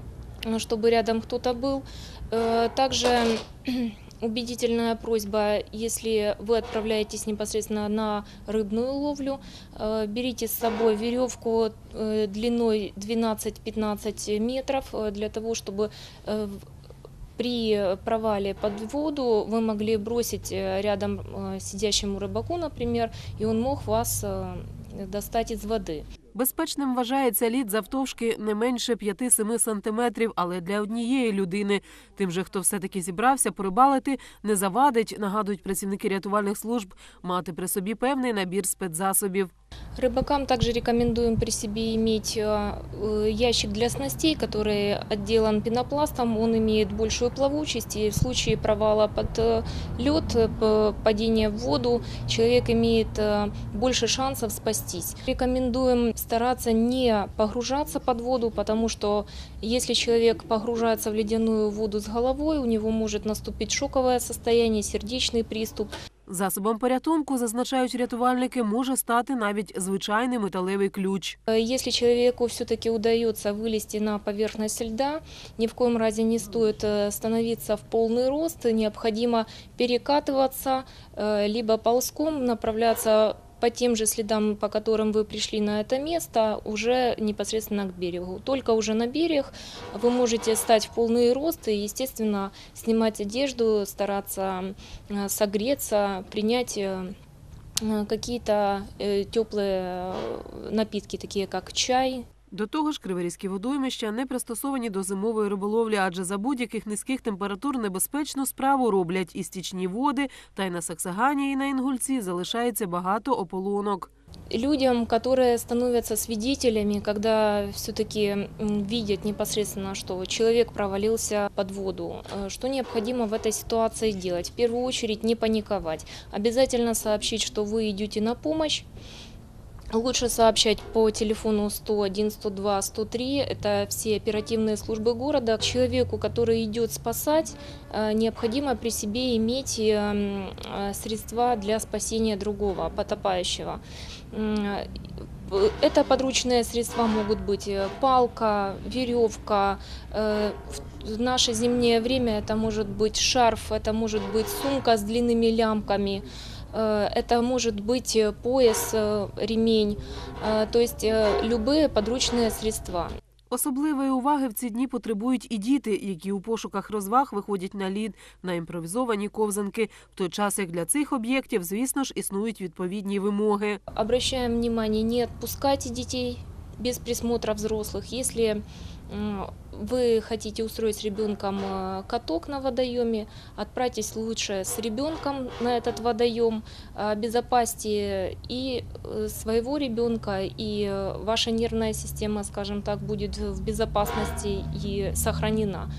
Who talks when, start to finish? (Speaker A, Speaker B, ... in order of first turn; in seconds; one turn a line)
Speaker A: 0.5-16.6
Speaker A: 17.4-26.0
Speaker B: 26.3-39.5
Speaker A: 40.0-65.9
Speaker B: 66.3-71.4
Speaker A: 71.5-97.1
Speaker A: 97.8-102.2
Speaker B: 102.5-114.1
Speaker A: 114.5-128.9
Speaker A: 129.9-144.9
Speaker A: 145.4-163.1
Speaker B: 163.5-173.8
Speaker A: 173.9-195.9